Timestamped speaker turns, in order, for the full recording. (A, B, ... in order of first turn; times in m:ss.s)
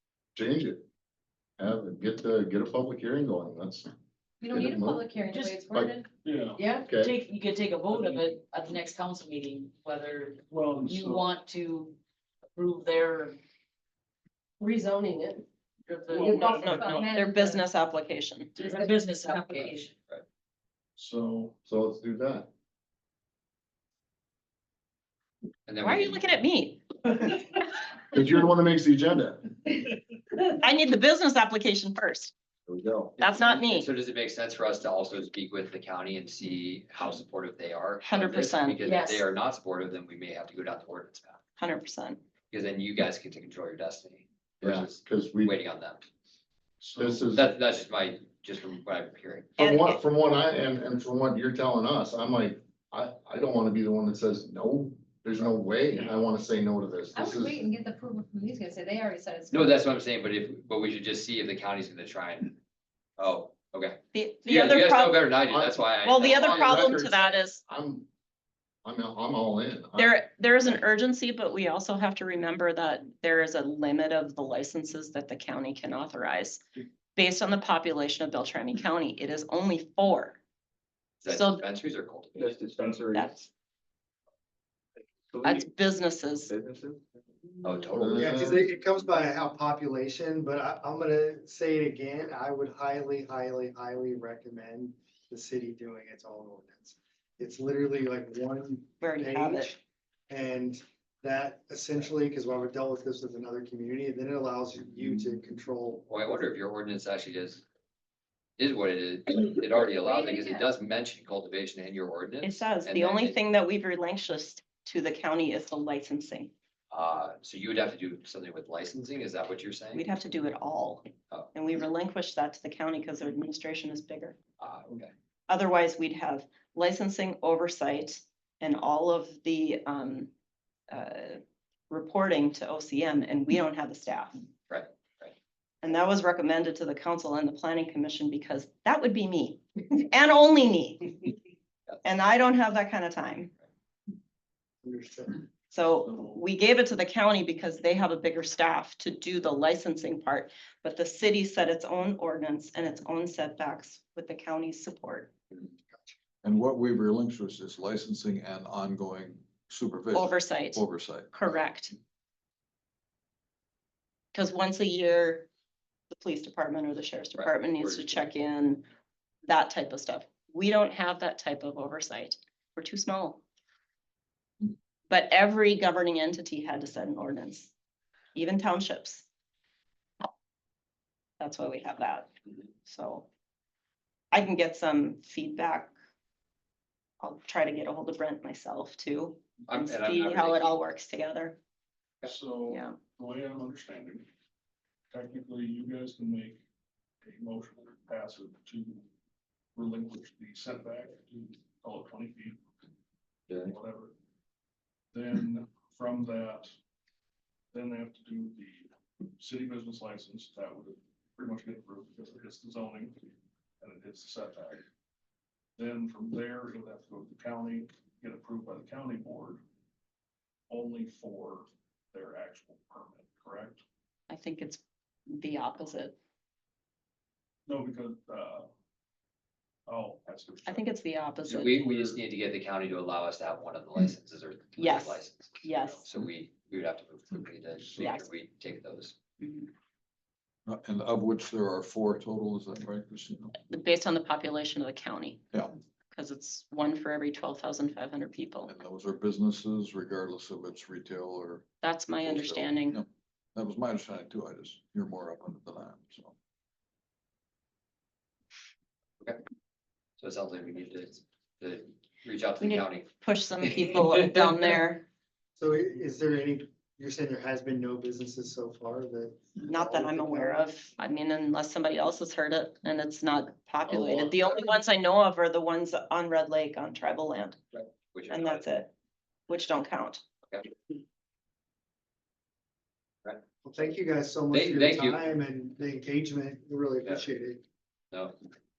0:00.3-0:00.8 A
0:01.6-0:03.9 A
0:04.4-0:06.1 B
0:04.5-0:05.0 A
0:05.3-0:05.6 C
0:05.7-0:06.0 A
0:06.2-0:06.7 D
0:06.6-0:12.0 C
0:06.8-0:07.1 A
0:07.9-0:08.3 D
0:10.5-0:11.3 D
0:12.5-0:13.4 C
0:14.6-0:15.4 B
0:15.9-0:16.4 C
0:15.9-0:17.2 D
0:16.3-0:18.6 E
0:16.8-0:17.6 B
0:18.6-0:19.9 C
0:21.0-0:21.6 D
0:21.6-0:22.5 A
0:25.7-0:26.4 F
0:25.8-0:26.8 E
0:28.1-0:29.5 A
0:30.6-0:32.3 E
0:32.7-0:33.1 A
0:33.2-0:41.4 F
0:33.2-0:33.9 E
0:38.0-0:38.8 E
0:41.6-0:42.2 E
0:42.5-0:46.0 F
0:44.6-0:45.5 A
0:46.8-0:47.2 D
0:46.9-0:47.5 A
0:47.3-0:49.6 F
0:49.6-0:57.6 A
0:49.6-0:50.0 E
0:57.1-0:59.8 B
0:59.5-1:02.6 F
1:03.2-1:06.9 F
1:04.1-1:05.3 E
1:05.5-1:08.1 A
1:06.0-1:07.6 E
1:08.8-1:10.2 A
1:09.9-1:16.6 E
1:17.1-1:20.4 E
1:21.2-1:22.6 F
1:21.3-1:21.6 E
1:22.3-1:23.3 G
1:23.1-1:23.5 E
1:25.3-1:25.7 G
1:25.4-1:26.5 E
1:26.5-1:27.0 G
1:27.6-1:28.6 F
1:27.9-1:28.6 A
1:28.1-1:46.0 H
1:39.0-1:39.7 E
1:46.1-1:47.6 F
1:48.6-1:53.4 F
1:52.4-1:56.5 E
1:56.9-2:00.1 F
1:59.9-2:04.4 E
2:04.6-2:05.1 F
2:05.5-2:10.3 E
2:10.9-2:14.4 E
2:14.7-2:15.3 F
2:15.8-2:21.3 E
2:22.0-2:23.5 E
2:24.8-2:25.4 H
2:25.7-2:35.3 E
2:26.0-2:26.4 D
2:36.4-2:41.3 I
2:40.1-2:41.9 E
2:44.3-2:45.5 E
2:46.1-2:48.8 E
2:47.4-2:48.2 F
2:49.4-2:53.4 E
2:55.1-2:57.7 E
2:58.3-2:59.3 E
3:01.4-3:02.3 E
3:02.8-3:03.3 E
3:04.3-3:05.9 E
3:07.2-3:11.6 E
3:09.7-3:10.7 F
3:12.2-3:14.2 D
3:12.7-3:13.0 E
3:15.1-3:16.6 D
3:17.2-3:19.0 D
3:19.7-3:22.6 D
3:23.6-3:24.1 D
3:25.1-3:26.7 D
3:27.7-3:33.3 D
3:33.8-3:34.8 D
3:35.8-3:39.6 D
3:40.7-3:43.8 D
3:44.3-3:46.2 E
3:47.6-3:48.7 D
3:49.9-3:50.9 D
3:50.6-3:51.9 E
3:51.5-3:59.2 F
3:51.8-3:52.2 D
3:54.8-3:56.0 E
3:58.0-3:58.3 E
3:59.4-3:59.7 E
4:00.7-4:03.5 I
4:03.7-4:05.4 E
4:06.1-4:08.7 E
4:08.6-4:11.7 I
4:11.8-4:13.0 E
4:12.2-4:16.3 I
4:20.2-4:23.1 F
4:22.6-4:25.0 E
4:25.6-4:30.7 H
4:29.7-4:37.6 E
4:37.8-4:38.6 F
4:38.3-4:38.9 E
4:39.5-4:40.2 E
4:43.6-4:47.6 H
4:44.5-4:45.2 F
4:48.1-4:48.4 F